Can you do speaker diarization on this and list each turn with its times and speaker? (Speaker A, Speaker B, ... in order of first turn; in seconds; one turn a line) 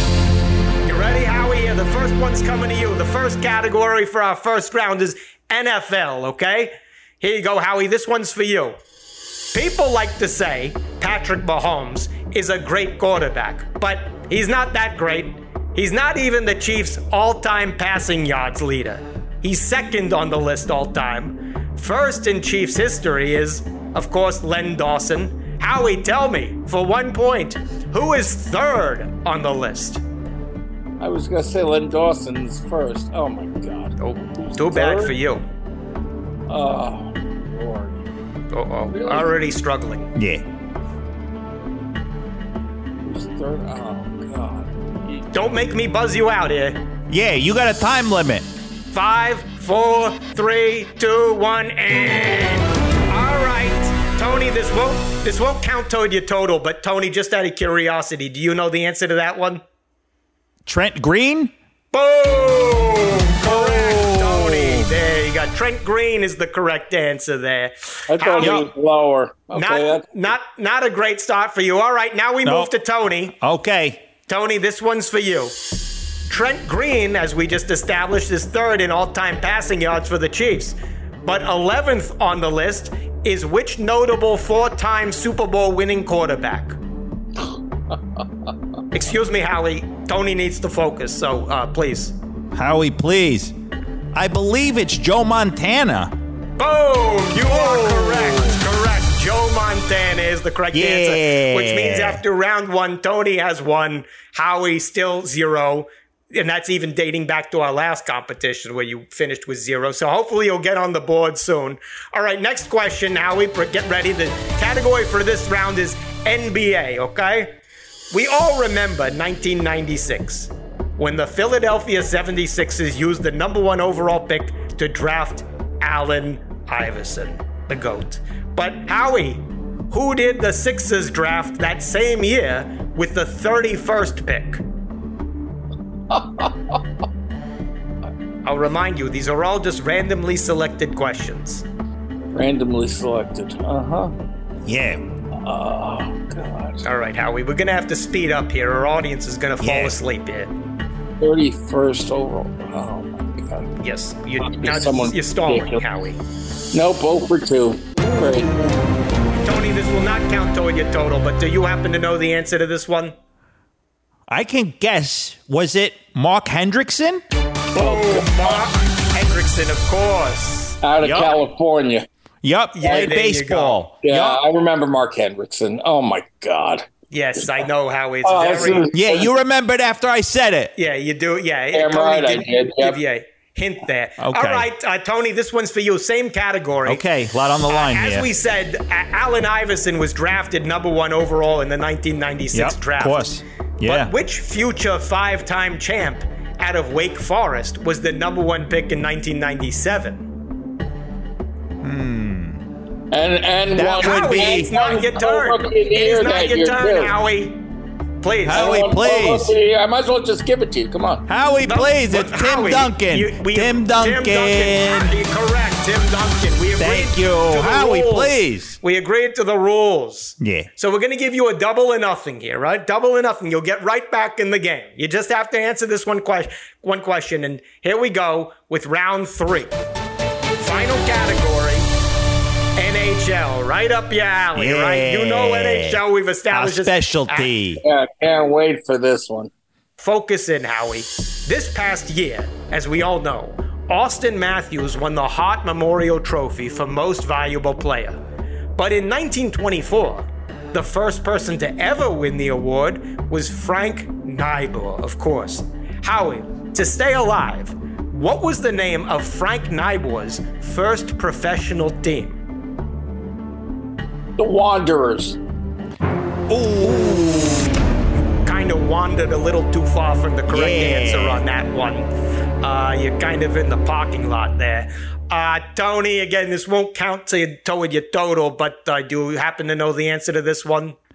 Speaker A: 0.8-6.7
Speaker A: 7.2-8.7
Speaker A: 9.5-30.0
Speaker B: 31.0-35.1
Speaker A: 34.0-35.4
Speaker B: 36.5-38.0
Speaker A: 38.5-40.1
Speaker B: 38.9-39.3
Speaker C: 40.1-40.4
Speaker B: 43.0-45.3
Speaker A: 45.3-46.8
Speaker C: 47.1-48.5
Speaker A: 48.9-59.6
Speaker C: 60.6-61.5
Speaker A: 61.9-68.6
Speaker C: 64.0-64.8
Speaker B: 68.1-70.3
Speaker C: 68.4-68.7
Speaker A: 69.5-73.3
Speaker C: 72.4-72.7
Speaker C: 73.4-74.0
Speaker A: 74.3-75.5
Speaker A: 76.3-86.8
Speaker B: 87.4-88.0
Speaker A: 88.9-92.1
Speaker C: 92.5-93.5
Speaker C: 94.1-96.1
Speaker A: 96.6-117.5
Speaker C: 100.7-102.2
Speaker A: 118.1-134.6
Speaker B: 136.1-136.8
Speaker A: 138.4-141.6
Speaker B: 142.3-144.1
Speaker C: 144.7-145.0
Speaker B: 145.4-146.8
Speaker A: 146.8-150.5
Speaker C: 149.6-149.9
Speaker B: 151.2-153.7
Speaker A: 153.8-156.2
Speaker B: 154.4-155.8
Speaker B: 156.7-158.6
Speaker A: 159.4-163.1
Speaker C: 164.3-167.2
Speaker B: 167.7-168.7
Speaker A: 167.8-170.7
Speaker B: 170.8-172.1
Speaker C: 171.0-171.4
Speaker C: 172.4-174.4
Speaker A: 172.8-173.8
Speaker B: 174.0-176.8
Speaker A: 177.1-178.8
Speaker B: 178.2-179.3
Speaker C: 178.9-180.7
Speaker A: 180.8-187.0
Speaker B: 181.7-183.0
Speaker C: 184.2-184.7
Speaker C: 186.8-188.3
Speaker A: 187.7-193.2
Speaker C: 192.5-194.1
Speaker A: 193.8-200.2
Speaker C: 201.8-202.6
Speaker B: 203.1-207.1
Speaker C: 203.7-204.7
Speaker A: 204.0-207.6
Speaker A: 208.2-208.8
Speaker C: 208.5-209.5
Speaker B: 208.5-211.2
Speaker C: 211.3-215.2
Speaker A: 211.7-229.7
Speaker C: 216.8-218.8
Speaker C: 220.4-220.7
Speaker A: 230.6-231.9
Speaker A: 232.8-237.5
Speaker C: 234.6-237.8
Speaker B: 237.8-239.5
Speaker A: 240.0-248.2
Speaker A: 248.8-262.4
Speaker B: 264.4-265.4
Speaker C: 266.5-267.7
Speaker A: 268.4-272.1
Speaker C: 270.5-271.4
Speaker A: 272.6-280.9